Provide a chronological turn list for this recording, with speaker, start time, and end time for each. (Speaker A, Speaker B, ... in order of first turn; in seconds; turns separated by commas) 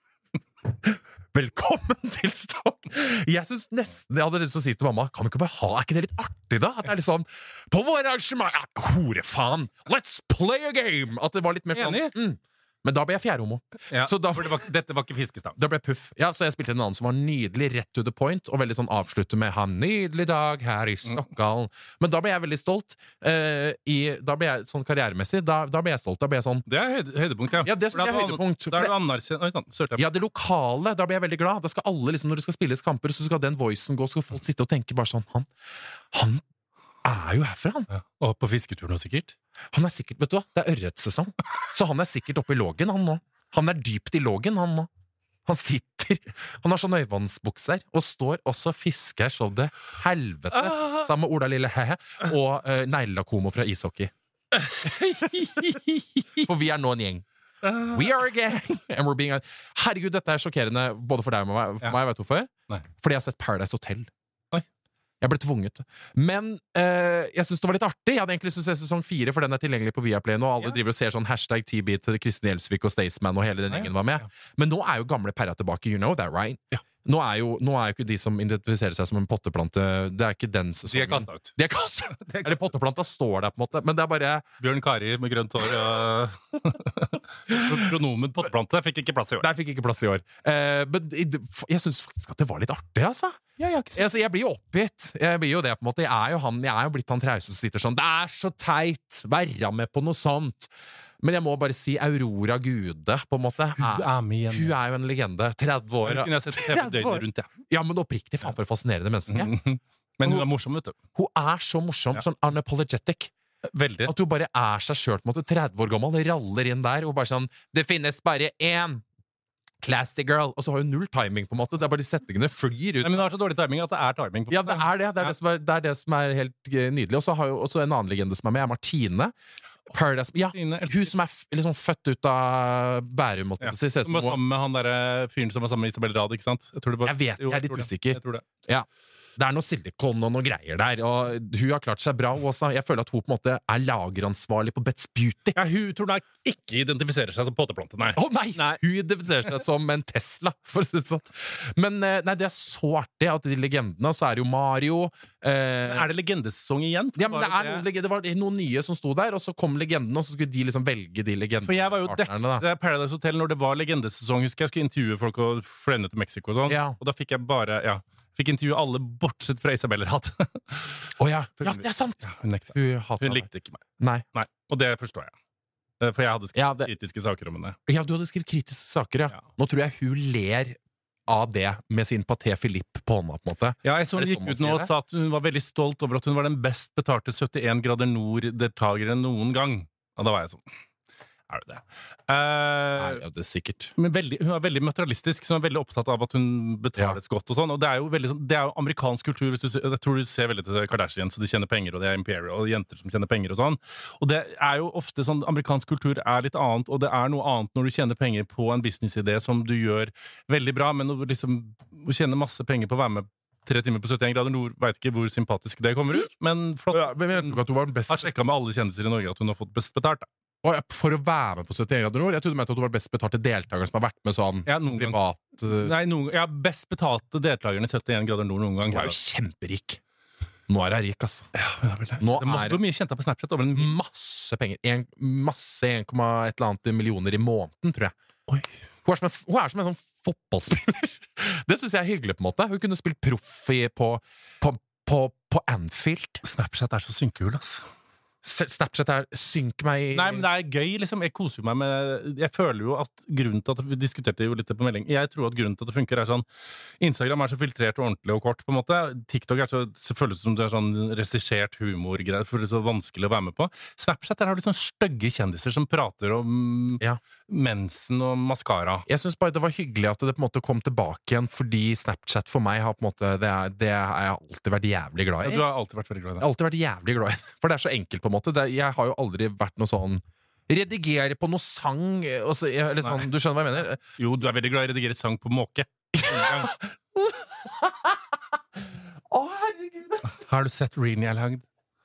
Speaker A: 0.7-14.6, Speaker B: 11.7-12.2, Speaker B: 13.9-15.6, Speaker A: 15.6-26.7, Speaker B: 26.7-30.1, Speaker A: 27.6-28.9, Speaker A: 30.0-35.5, Speaker A: 36.1-36.4, Speaker A: 37.0-37.9, Speaker B: 37.9-39.4, Speaker A: 39.7-44.9, Speaker A: 45.5-54.1, Speaker B: 50.5-51.1, Speaker B: 54.5-56.5, Speaker A: 56.4-57.2, Speaker B: 57.6-58.2, Speaker A: 57.9-64.1, Speaker A: 65.2-84.5, Speaker B: 73.7-74.2, Speaker B: 80.9-81.5, Speaker B: 82.1-82.6, Speaker B: 84.6-89.5, Speaker A: 87.5-87.9, Speaker A: 89.4-109.5, Speaker B: 93.6-94.0, Speaker B: 103.8-104.7, Speaker B: 106.0-107.5, Speaker B: 109.3-111.0, Speaker A: 110.2-110.5, Speaker A: 111.2-113.3, Speaker B: 113.7-114.1, Speaker A: 114.1-119.0, Speaker A: 119.8-123.2, Speaker B: 123.0-125.3, Speaker A: 124.5-129.3, Speaker A: 129.9-134.4, Speaker B: 130.5-131.1, Speaker B: 133.6-138.4, Speaker A: 137.1-145.6, Speaker B: 145.6-148.8, Speaker A: 148.2-156.1, Speaker B: 155.8-157.9, Speaker A: 157.2-162.7, Speaker B: 161.6-171.0, Speaker A: 166.7-167.0, Speaker A: 171.2-173.5, Speaker B: 171.6-173.8, Speaker A: 174.0-174.2, Speaker B: 174.3-175.3, Speaker B: 176.0-177.8, Speaker A: 176.6-176.9, Speaker A: 177.9-184.9, Speaker B: 183.8-190.7, Speaker B: 191.5-193.2, Speaker A: 193.0-193.9, Speaker B: 194.0-220.3, Speaker A: 216.9-218.3, Speaker A: 220.6-225.9, Speaker B: 224.7-229.2, Speaker A: 228.9-230.0, Speaker A: 230.7-231.5, Speaker B: 231.6-233.9, Speaker A: 232.2-232.8, Speaker A: 233.7-238.2, Speaker A: 239.1-246.4, Speaker B: 246.4-247.8, Speaker A: 248.4-250.5, Speaker B: 250.1-256.4, Speaker B: 257.0-269.1, Speaker A: 269.1-275.7, Speaker B: 275.4-276.5, Speaker A: 276.4-284.0, Speaker B: 283.0-283.3, Speaker B: 284.2-286.8, Speaker A: 286.1-288.4, Speaker A: 289.3-290.4, Speaker B: 290.2-291.6